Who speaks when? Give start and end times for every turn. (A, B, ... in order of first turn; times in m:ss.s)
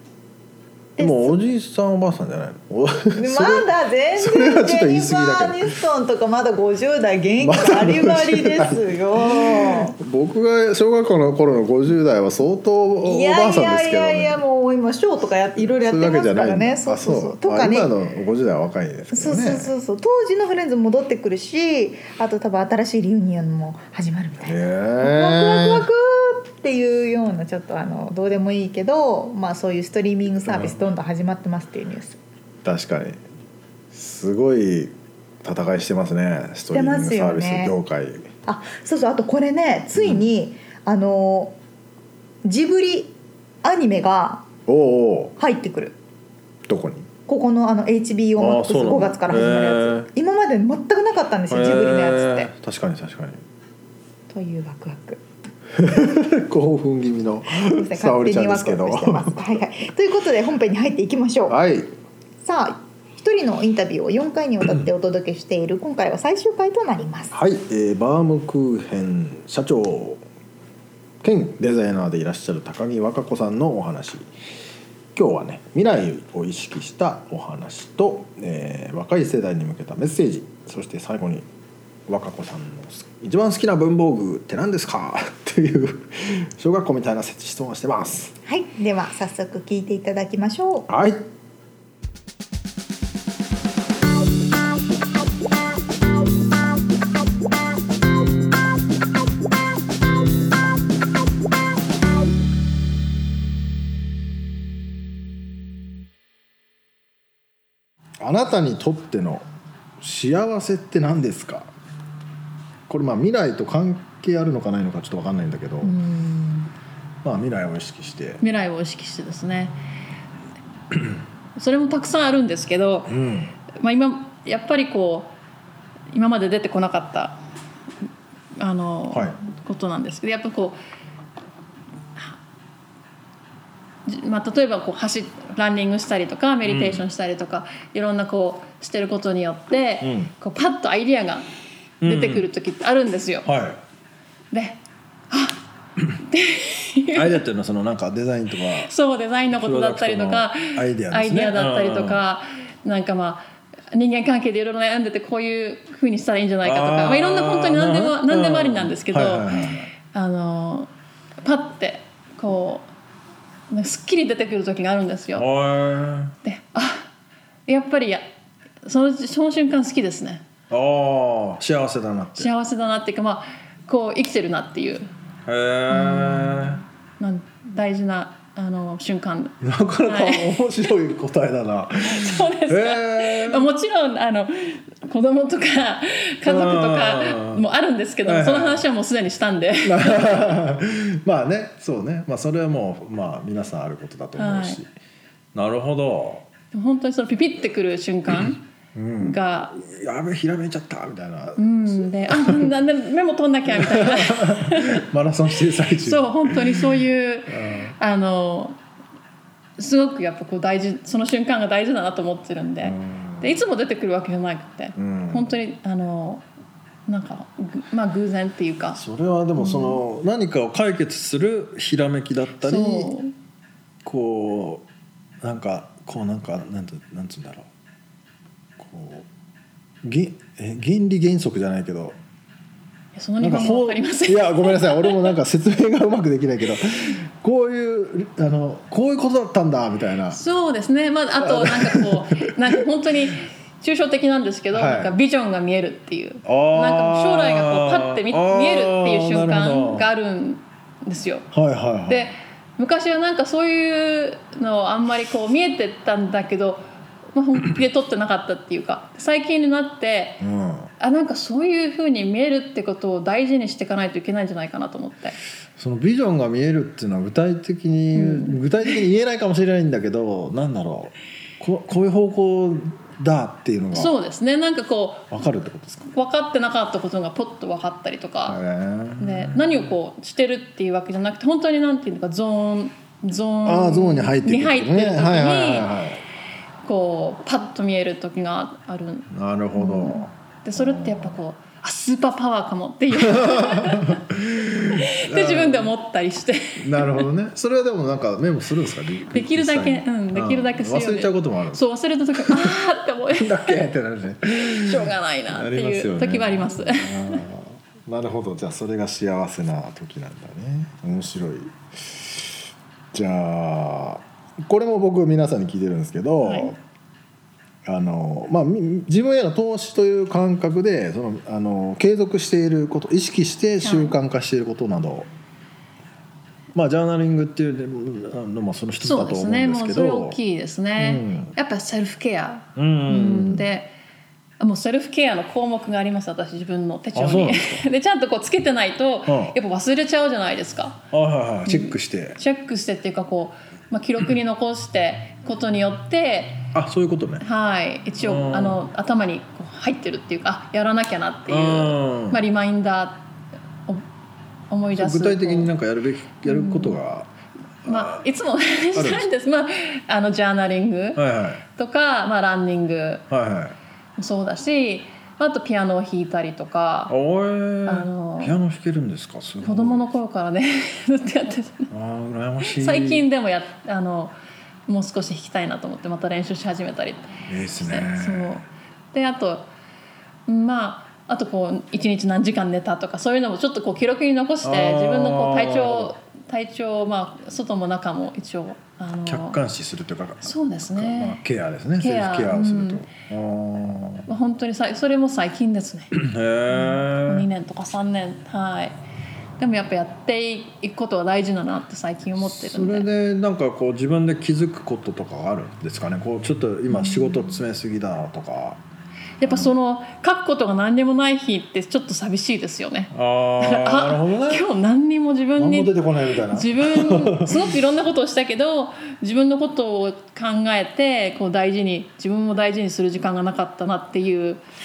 0:01.0-0:01.4 A
0:01.0-0:05.7 B
0:03.2-0:10.0 A
0:07.4-0:14.4 B
0:13.0-0:17.9 A
0:15.6-0:19.7 B
0:19.1-0:32.2 A
0:24.4-0:25.9 B
0:30.4-0:30.8 B
0:32.6-0:33.2 B
0:33.9-0:38.3 B
0:36.7-0:37.8 A
0:38.5-0:41.6 A
0:40.0-0:40.2 B
0:42.4-0:44.5 A
0:44.7-0:45.4 B
0:45.4-0:46.0 A
0:46.7-0:47.1 B
0:47.3-0:52.5 A
0:48.4-0:50.1 B
0:51.5-0:53.4 B
0:54.3-0:55.2 A
0:55.8-0:59.4 B
0:57.6-1:01.6 A
1:01.5-1:01.9 B
1:02.4-1:07.3 A
1:07.3-1:10.2 B
1:11.2-1:14.3 B
1:15.2-1:21.5 B
1:22.1-1:28.4 B
1:28.5-1:30.9 A
1:30.9-1:31.2 B
1:48.2-1:49.4 B
1:50.0-1:51.7 B
1:52.9-1:56.0 B
1:55.9-1:56.6 A
1:57.2-1:58.4 B
1:58.4-1:59.8 C
2:01.6-2:03.2 C
2:03.1-2:03.5 B
2:03.8-2:05.3 C
2:06.1-2:07.4 C
2:08.6-2:10.8 C
2:09.1-2:09.4 B
2:14.1-2:21.5 C
2:16.6-2:17.0 B
2:20.0-2:20.3 B
2:22.0-2:22.5 B
2:22.0-2:23.5 C
2:23.4-2:23.8 B
2:24.5-2:24.8 C
2:25.3-2:25.6 C
2:26.2-2:27.4 C
2:27.1-2:28.9 B
2:28.8-2:40.9 C
2:29.6-2:32.2 B
2:36.6-2:39.9 B
2:41.4-2:42.9 C
2:43.7-2:45.5 C
2:45.4-2:46.4 B
2:46.4-2:47.1 C
2:47.7-2:48.2 C
2:48.8-2:50.5 C
2:50.7-2:52.5 B
2:52.4-2:55.1 C
2:55.5-2:56.8 B
2:55.9-3:00.9 C
2:59.6-3:03.7 B
3:02.0-3:10.6 C
3:06.4-3:07.7 B
3:08.2-3:08.8 B
3:09.8-3:14.9 B
3:14.4-3:14.8 C
3:15.5-3:16.5 B
3:16.7-3:18.6 C
3:19.0-3:22.7 B
3:19.2-3:19.8 C
3:21.6-3:25.0 C
3:23.7-3:27.9 B
3:26.0-3:28.8 C
3:29.8-3:36.5 C
3:32.8-3:33.6 B
3:35.0-3:35.5 B
3:37.1-3:39.0 C
3:38.9-3:43.1 B
3:39.6-3:40.0 C
3:42.6-3:43.3 C
3:44.0-3:44.8 B
3:45.4-3:47.7 B
3:48.8-3:49.3 B
3:50.0-3:52.2 B
3:53.1-3:55.4 C
3:53.4-4:00.4 B
4:00.3-4:11.5 C
4:01.4-4:03.2 B
4:04.7-4:05.1 B
4:06.4-4:10.1 B
4:11.5-4:12.3 B
4:12.1-4:20.4 C
4:20.4-4:20.9 B
4:21.0-4:25.4 C
4:25.8-4:34.2 B
4:28.1-4:28.6 C
4:33.9-4:35.3 C
4:35.3-4:36.1 B
4:36.1-4:38.6 C
4:38.5-4:39.9 B
4:39.2-4:45.9 C
4:43.6-4:46.2 B
4:46.8-4:54.2 C
4:49.3-4:51.4 B
4:53.1-4:55.9 B
4:54.9-4:57.3 C
4:56.8-5:02.8 B
4:59.3-5:03.8 C
5:03.3-5:16.8 B
5:04.6-5:07.4 C
5:16.4-5:16.7 C
5:17.8-5:25.3 B
5:23.8-5:24.2 C
5:26.7-5:30.4 B
5:29.0-5:33.9 C
5:31.0-5:31.5 B
5:32.8-5:33.7 B
5:34.6-5:41.0 C
5:37.1-5:37.8 B
5:39.3-5:39.6 B
5:41.1-5:42.4 B
5:41.7-5:46.6 C
5:46.7-5:47.4 B
5:47.4-5:53.2 C
5:48.2-5:48.8 B
5:51.5-5:52.4 B
5:54.7-5:55.7 C
5:54.9-5:57.3 B
5:56.4-5:57.0 C
5:57.8-5:58.2 B
5:57.8-6:03.3 C
5:59.0-5:59.3 B
6:01.2-6:01.6 B
6:03.3-6:03.8 B
6:04.2-6:07.2 C
6:07.1-6:10.2 B
6:07.8-6:08.6 C
6:09.6-6:11.9 C
6:11.9-6:13.3 B
6:12.6-6:14.4 C
6:14.9-6:19.7 C
6:17.5-6:18.6 B
6:20.5-6:29.6 C
6:24.6-6:26.1 B
6:29.3-6:34.3 B
6:30.4-6:31.4 C
6:32.0-6:33.0 C
6:34.3-6:36.1 C
6:36.1-6:37.5 B
6:36.7-6:39.0 C
6:39.6-6:43.1 C
6:42.4-6:48.8 B
6:46.9-6:47.6 C
6:49.4-7:04.6 C
6:49.4-6:49.7 B
6:53.1-6:54.7 B
6:55.6-6:57.7 B